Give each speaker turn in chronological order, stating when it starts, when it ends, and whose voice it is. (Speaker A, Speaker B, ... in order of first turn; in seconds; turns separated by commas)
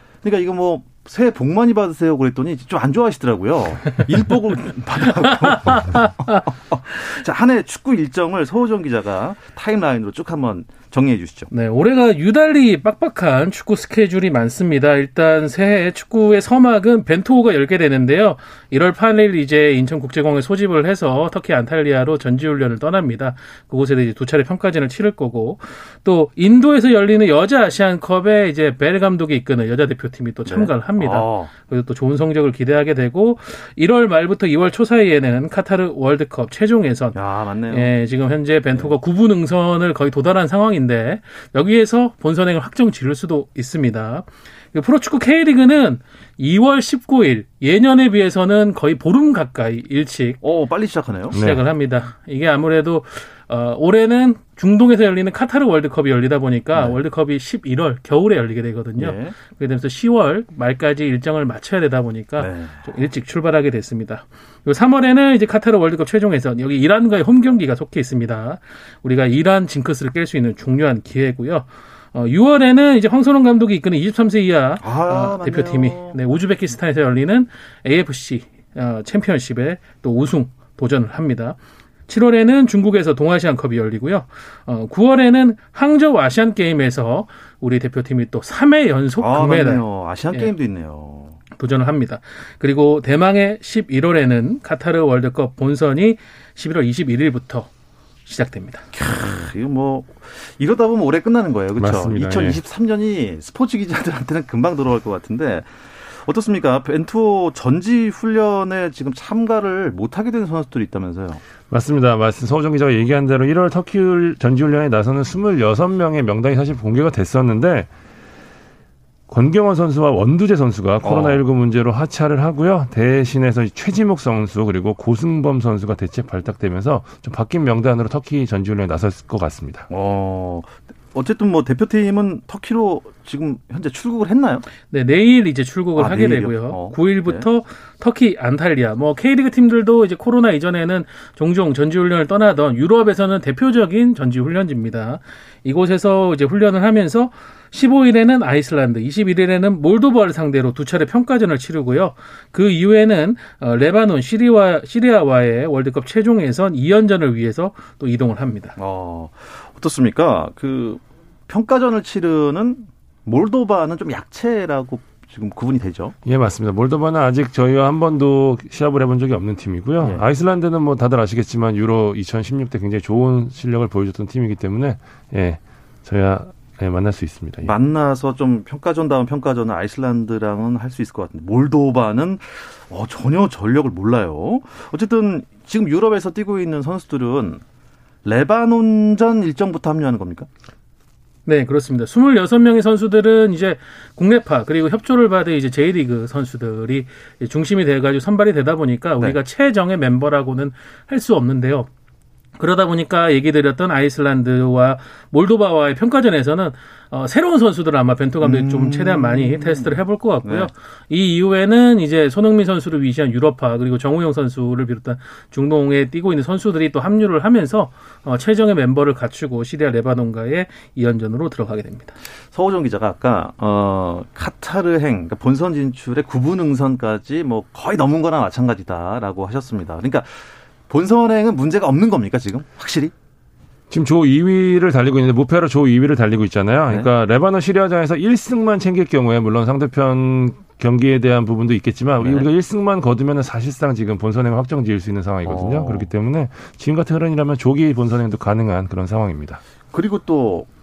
Speaker A: 0.2-11.5, Speaker B: 5.4-6.1, Speaker B: 11.5-37.2, Speaker A: 30.4-31.5, Speaker A: 37.1-37.9, Speaker B: 37.7-50.4, Speaker A: 50.4-51.4, Speaker B: 51.3-81.6, Speaker C: 51.3-51.6, Speaker A: 59.0-59.4, Speaker A: 62.4-62.9, Speaker A: 74.8-76.2, Speaker B: 82.1-90.5, Speaker A: 89.2-91.4, Speaker B: 91.5-97.7, Speaker B: 98.2-98.9, Speaker A: 98.9-111.4, Speaker C: 101.8-102.6, Speaker C: 111.7-117.9, Speaker C: 119.3-129.9, Speaker A: 121.0-121.4, Speaker A: 129.9-134.6, Speaker B: 134.9-158.8, Speaker A: 135.9-137.4, Speaker A: 158.8-166.1, Speaker C: 166.2-177.7, Speaker A: 177.6-187.6, Speaker A: 188.2-190.5, Speaker B: 191.4-201.9, Speaker B: 202.6-222.2, Speaker A: 208.4-210.7, Speaker A: 222.5-233.1, Speaker C: 233.9-249.6, Speaker A: 242.2-242.5, Speaker A: 245.4-246.1, Speaker A: 249.9-250.7